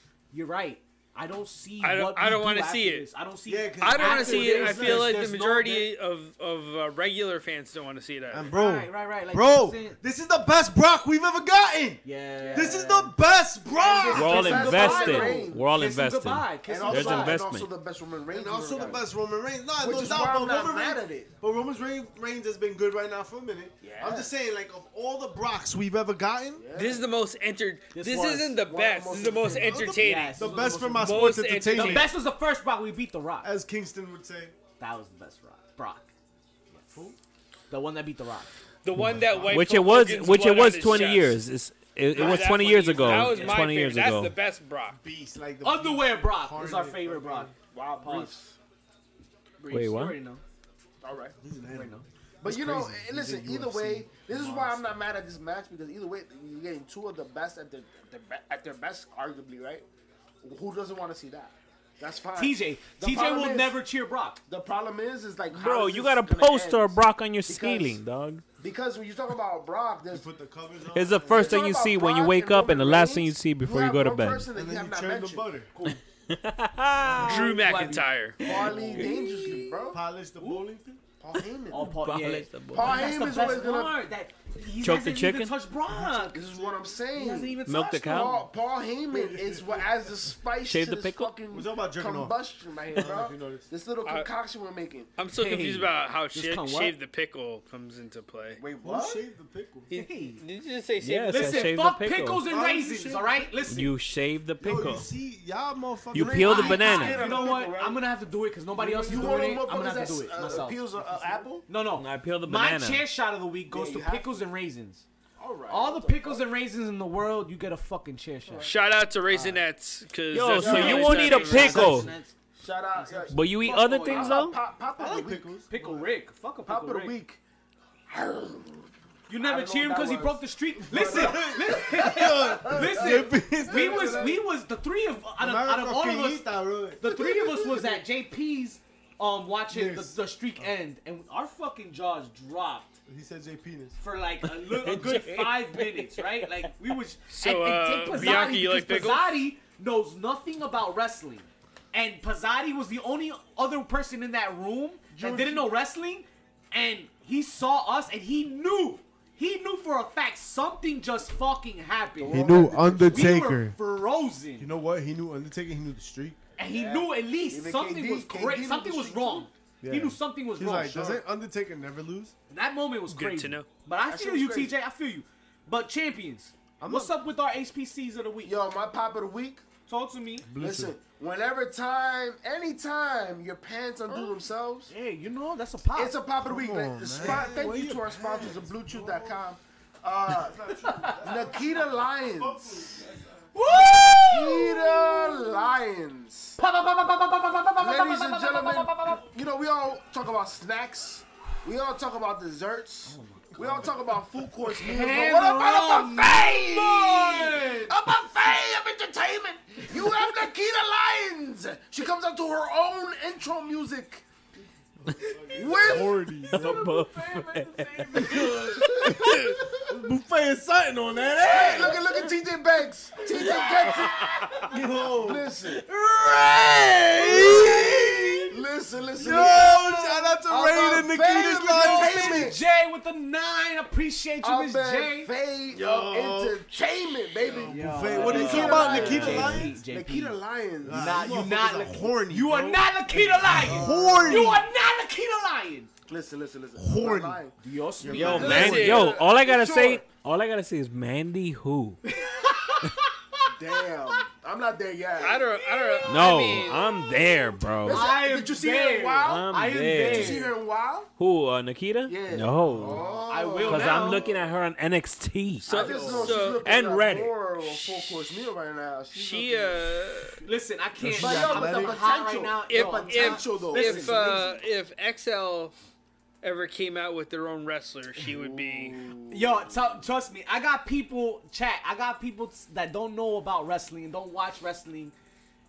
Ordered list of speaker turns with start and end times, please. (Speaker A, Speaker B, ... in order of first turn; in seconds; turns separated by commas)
Speaker A: 0.3-5.9, Speaker B: 1.8-3.0, Speaker C: 3.5-5.1, Speaker B: 3.8-8.5, Speaker C: 8.3-14.8, Speaker A: 8.5-10.0, Speaker A: 12.0-13.1, Speaker D: 12.4-12.8, Speaker D: 13.7-15.7, Speaker A: 14.0-17.4, Speaker E: 14.1-17.7, Speaker D: 16.6-19.1, Speaker C: 18.3-26.7, Speaker D: 19.8-21.3, Speaker D: 23.8-24.3, Speaker D: 26.6-27.1, Speaker B: 26.7-32.1, Speaker A: 27.9-28.6, Speaker D: 28.6-29.8, Speaker C: 29.4-32.1, Speaker A: 29.9-31.1, Speaker A: 31.7-33.5, Speaker C: 33.4-34.5, Speaker A: 34.8-36.1, Speaker C: 36.9-37.2, Speaker A: 37.7-38.5, Speaker B: 38.8-41.4, Speaker C: 38.9-39.7, Speaker E: 39.5-44.3, Speaker B: 42.1-45.0, Speaker A: 42.1-43.7, Speaker C: 45.0-47.5, Speaker A: 45.6-48.4, Speaker D: 47.7-48.6, Speaker A: 49.6-50.4, Speaker E: 49.7-50.2, Speaker D: 51.0-51.3, Speaker C: 51.4-55.0, Speaker A: 51.7-52.0, Speaker D: 52.4-59.8, Speaker D: 60.4-63.8, Speaker A: 62.4-64.4, Speaker D: 64.5-68.0, Speaker E: 65.5-68.4, Speaker D: 68.6-70.2, Speaker C: 70.1-71.7, Speaker E: 70.9-74.5, Speaker D: 71.2-75.5, Speaker C: 74.5-75.7, Speaker A: 75.7-76.0, Speaker E: 75.9-77.5, Speaker A: 77.1-79.1, Speaker B: 77.2-78.4, Speaker D: 78.4-80.0, Speaker C: 78.4-81.0, Speaker E: 79.0-79.5, Speaker A: 80.4-80.6, Speaker D: 81.2-81.9, Speaker A: 81.7-88.4, Speaker E: 81.8-83.3, Speaker D: 82.7-84.0, Speaker E: 84.8-85.5, Speaker D: 86.3-95.1, Speaker E: 87.6-88.4, Speaker C: 89.1-89.9, Speaker E: 90.6-91.4, Speaker C: 91.5-92.4, Speaker C: 92.9-93.7, Speaker B: 94.0-94.3, Speaker B: 95.2-98.6, Speaker A: 95.3-96.9, Speaker D: 98.6-99.2, Speaker C: 98.8-99.9, Speaker B: 99.9-101.7, Speaker A: 99.9-100.4, Speaker E: 101.0-102.4, Speaker A: 101.3-103.9, Speaker C: 102.5-103.5, Speaker E: 103.6-105.1, Speaker C: 104.6-106.8, Speaker E: 106.1-107.5, Speaker D: 106.2-108.0, Speaker A: 106.5-110.8, Speaker C: 108.7-109.6, Speaker D: 109.0-111.7, Speaker A: 111.7-115.0, Speaker E: 112.0-113.0, Speaker D: 113.7-114.3, Speaker D: 115.4-116.4, Speaker A: 115.7-118.7, Speaker D: 118.4-118.7, Speaker B: 118.6-121.9, Speaker E: 120.3-122.1, Speaker D: 120.6-125.5, Speaker A: 120.6-122.3, Speaker A: 123.0-123.3, Speaker E: 123.3-124.6, Speaker C: 125.0-126.0, Speaker A: 125.7-127.2, Speaker D: 126.7-127.4, Speaker D: 128.1-134.4, Speaker A: 129.3-142.9, Speaker C: 130.9-134.3, Speaker C: 135.4-137.1, Speaker D: 137.1-138.0, Speaker C: 139.7-140.7, Speaker C: 143.1-144.0, Speaker A: 144.0-164.7, Speaker B: 144.9-145.8, Speaker B: 147.3-149.4, Speaker D: 155.1-155.7, Speaker D: 162.2-163.5, Speaker C: 162.3-163.8, Speaker C: 164.6-166.4, Speaker A: 166.6-171.2, Speaker D: 166.7-169.5, Speaker C: 169.8-172.3, Speaker A: 172.5-178.5, Speaker B: 173.1-173.7, Speaker D: 174.1-174.7, Speaker C: 176.8-177.1, Speaker D: 178.4-179.6, Speaker A: 179.9-180.5, Speaker C: 180.4-180.9, Speaker D: 180.6-184.9, Speaker A: 184.9-186.1, Speaker D: 185.9-190.6, Speaker C: 186.4-189.4, Speaker C: 190.3-194.0, Speaker A: 190.8-191.2, Speaker D: 191.2-193.0, Speaker A: 193.5-195.7, Speaker D: 194.1-196.6, Speaker A: 196.6-199.2, Speaker D: 197.8-214.2, Speaker A: 203.1-204.0, Speaker A: 204.6-207.9, Speaker C: 215.0-216.8, Speaker A: 215.2-218.9, Speaker D: 215.5-216.3, Speaker E: 216.5-218.5, Speaker C: 218.2-222.3, Speaker D: 218.2-219.2, Speaker D: 221.4-225.8, Speaker A: 223.5-224.6, Speaker C: 224.7-228.6, Speaker D: 227.3-227.6, Speaker D: 228.5-232.6, Speaker C: 229.2-232.5, Speaker A: 231.6-235.3, Speaker D: 234.4-241.4, Speaker C: 235.7-236.6, Speaker C: 237.4-239.8, Speaker A: 237.5-245.9, Speaker E: 238.4-239.1, Speaker C: 240.8-244.7, Speaker D: 243.6-244.6, Speaker D: 246.1-247.5, Speaker C: 246.8-247.4, Speaker A: 247.6-248.8, Speaker C: 248.0-249.0, Speaker E: 248.1-252.0, Speaker B: 248.1-249.2, Speaker D: 248.2-250.1, Speaker A: 252.0-253.1, Speaker D: 253.5-256.1, Speaker B: 255.2-256.9, Speaker E: 256.0-258.1, Speaker D: 257.2-261.1, Speaker A: 257.9-260.5, Speaker E: 259.2-260.5, Speaker E: 261.2-263.0, Speaker D: 262.1-264.4, Speaker C: 262.7-263.2, Speaker A: 263.3-264.3, Speaker E: 263.6-267.4, Speaker D: 265.6-269.8, Speaker B: 265.6-266.6, Speaker C: 265.8-266.4, Speaker B: 267.6-268.1, Speaker B: 269.1-270.4, Speaker A: 270.4-274.5, Speaker C: 271.0-272.0, Speaker D: 271.2-274.6, Speaker B: 272.7-275.7, Speaker B: 276.4-279.0, Speaker D: 278.2-280.0, Speaker A: 279.3-285.1